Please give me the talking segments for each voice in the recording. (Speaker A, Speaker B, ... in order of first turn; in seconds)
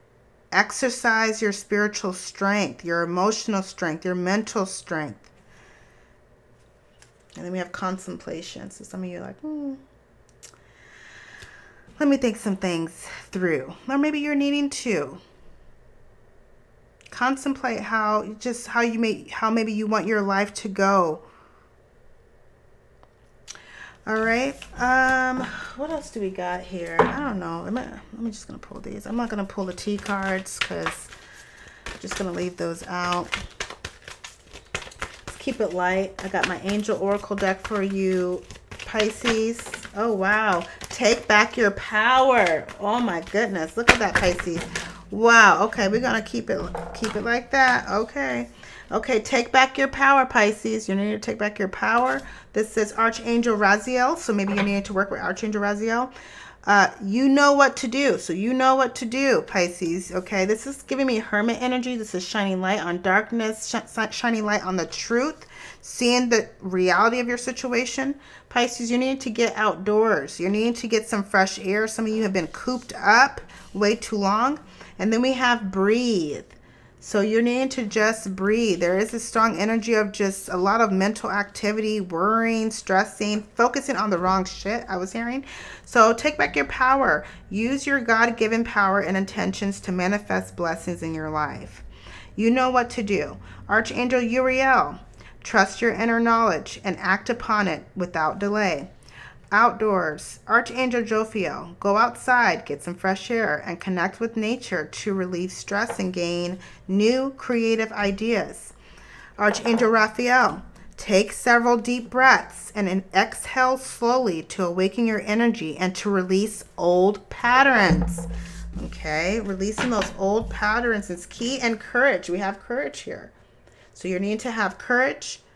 Speaker A: 0.5-5.3, 7.4-9.8, 12.0-15.2, 17.1-21.2, 24.1-31.1, 32.0-33.3, 35.3-56.1, 56.6-91.8, 92.3-98.9, 99.5-108.7, 109.4-123.3, 123.9-125.4